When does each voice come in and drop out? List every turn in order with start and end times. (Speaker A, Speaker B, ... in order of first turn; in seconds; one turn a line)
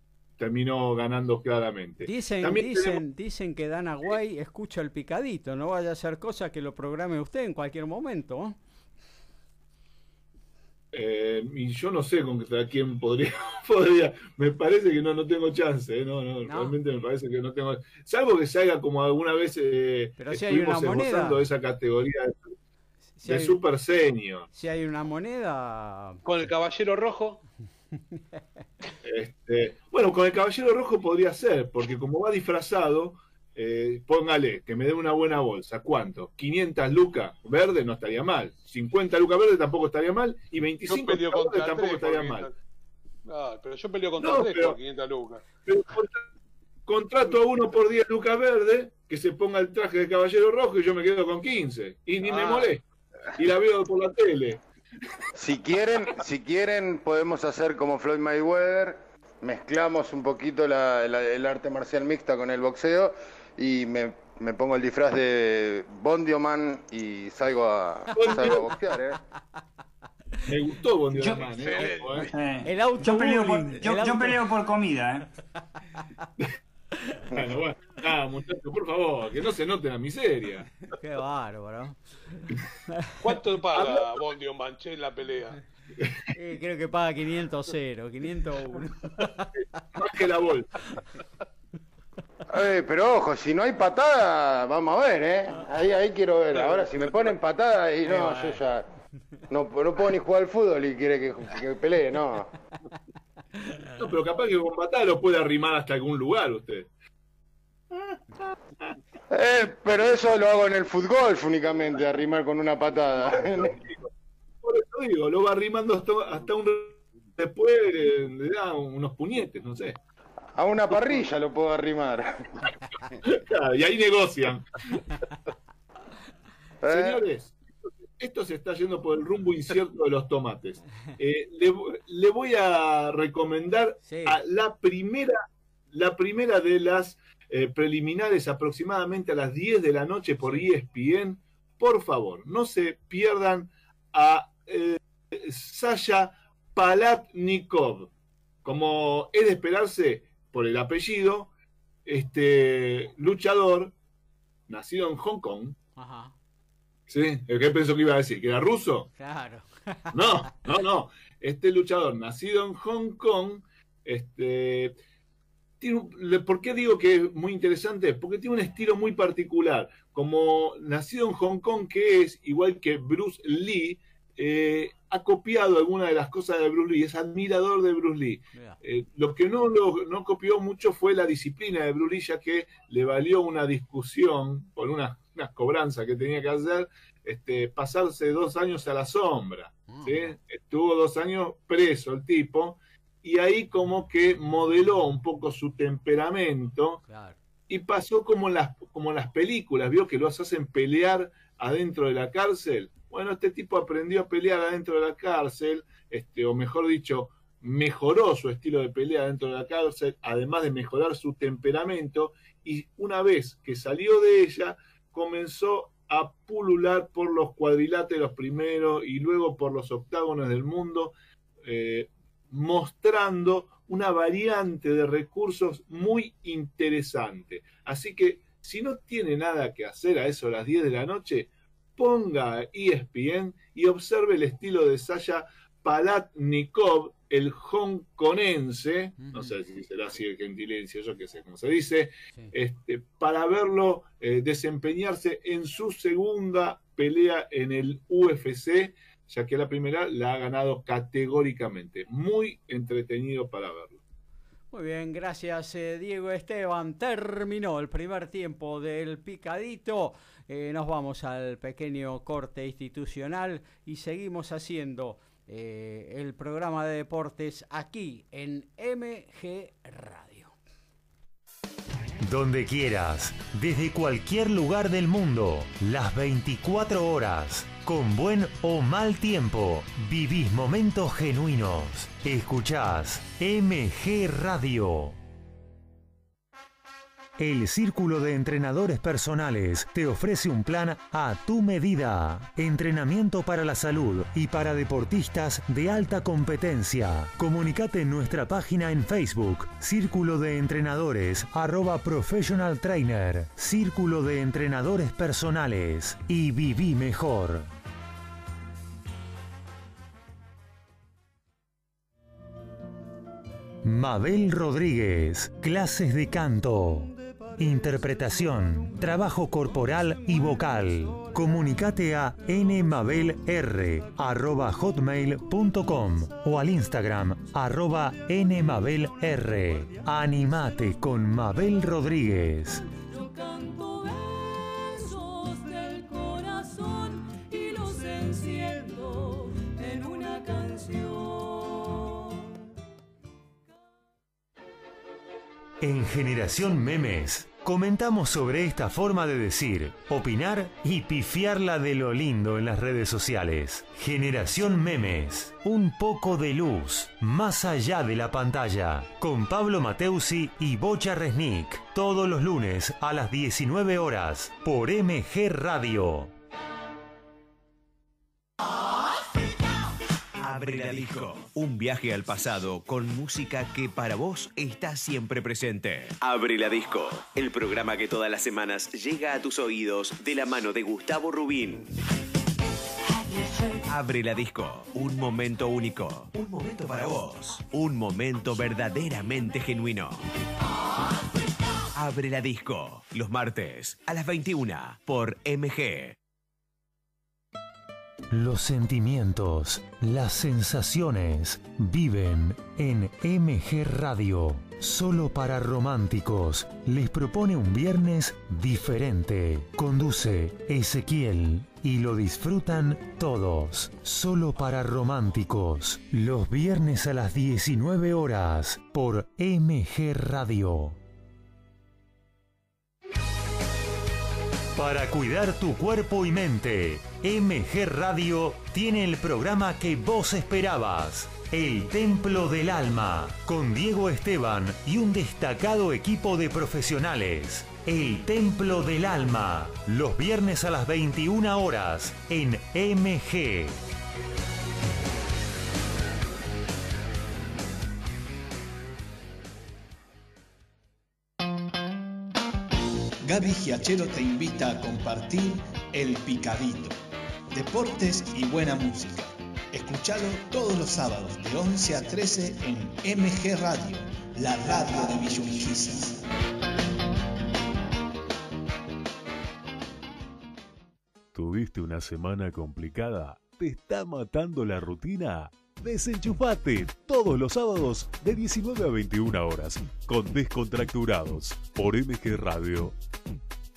Speaker A: 0.4-3.0
Speaker B: 2.0-8.6
Speaker A: 10.9-22.5
Speaker B: 16.4-16.8
Speaker B: 20.2-21.4
Speaker B: 23.2-23.6
Speaker A: 23.2-24.5
Speaker B: 24.5-26.2
Speaker C: 26.2-27.4
Speaker B: 28.0-28.2
Speaker A: 29.0-42.5
Speaker C: 40.9-42.5
Speaker C: 43.2-45.5
Speaker A: 44.2-44.8
Speaker A: 45.6-46.2
Speaker A: 46.9-52.8
Speaker D: 52.3-52.7
Speaker A: 53.4-54.6
Speaker D: 55.4-69.2
Speaker A: 68.1-68.6
Speaker A: 70.4-72.3
Speaker C: 71.5-72.0
Speaker E: 72.1-75.3
Speaker B: 72.6-74.4
Speaker A: 77.3-80.6
Speaker B: 81.0-82.0
Speaker B: 82.9-83.2
Speaker C: 83.2-85.6
Speaker B: 86.3-89.5
Speaker A: 90.0-90.9
Speaker D: 92.5-98.9
Speaker B: 98.0-98.6
Speaker D: 99.5-102.5
Speaker A: 104.0-106.9
Speaker D: 109.3-113.7
Speaker A: 114.6-120.0
Speaker D: 120.5-122.6
Speaker A: 123.2-125.0
Speaker D: 126.8-127.2
Speaker A: 126.9-127.5
Speaker A: 128.2-135.4
Speaker B: 134.0-134.4
Speaker A: 135.9-148.1
Speaker A: 148.6-151.5
Speaker A: 152.1-153.9
Speaker A: 154.7-155.8
Speaker B: 155.9-156.3
Speaker A: 157.1-159.1
Speaker B: 159.2-160.1
Speaker A: 160.1-165.0
Speaker A: 165.8-197.0
Speaker B: 189.9-190.3
Speaker B: 197.1-197.3
Speaker A: 197.7-254.0
Speaker B: 239.2-239.6
Speaker B: 254.7-270.5
Speaker F: 272.2-285.2
Speaker F: 287.4-307.7
Speaker F: 313.8-332.8
Speaker G: 332.9-342.3
Speaker F: 345.8-366.3
Speaker H: 370.4-381.9
Speaker H: 383.7-390.2
Speaker H: 391.9-396.1
Speaker F: 398.3-421.0
Speaker F: 424.8-443.8
Speaker I: 453.2-457.0
Speaker I: 457.5-466.2
Speaker J: 471.3-482.9